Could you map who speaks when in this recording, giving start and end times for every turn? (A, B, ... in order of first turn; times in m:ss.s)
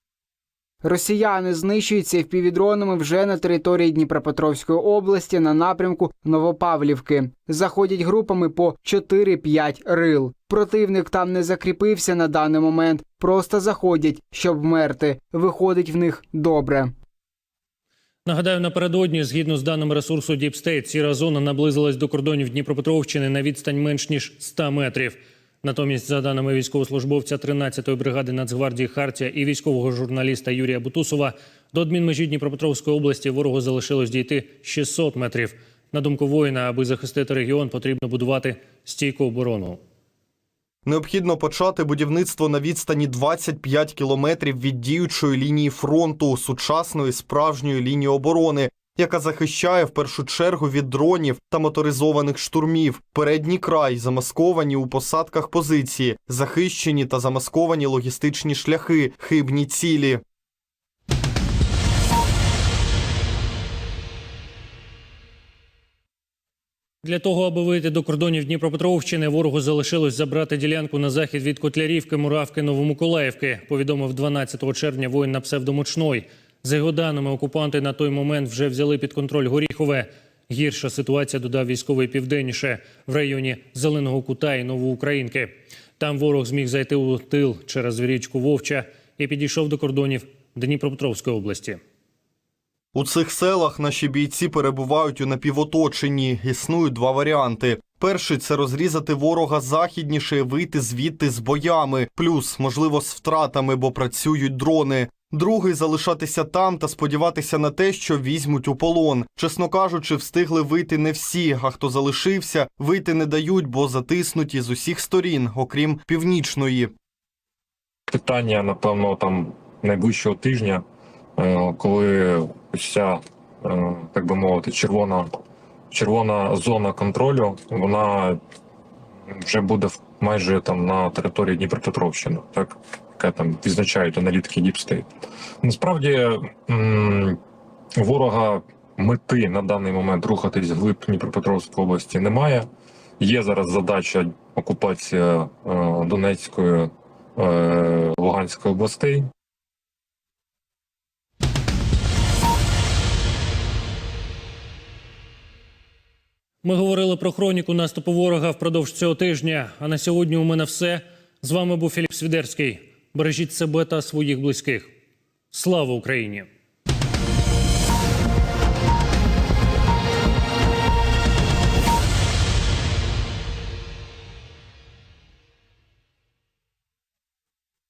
0:00.8-0:16.9 A
0:18.2-0:39.8 B
0:40.8-1:00.2 C
1:07.0-1:31.8 B
1:32.9-1:56.9 C
1:58.1-2:00.8 D
2:01.4-2:05.3 D
2:05.9-2:08.4 D
2:09.3-2:15.1 D
2:15.6-2:17.4 D
2:18.0-2:22.7 D
2:23.2-2:29.3 D
2:36.6-2:44.9 B
2:45.5-2:46.5 B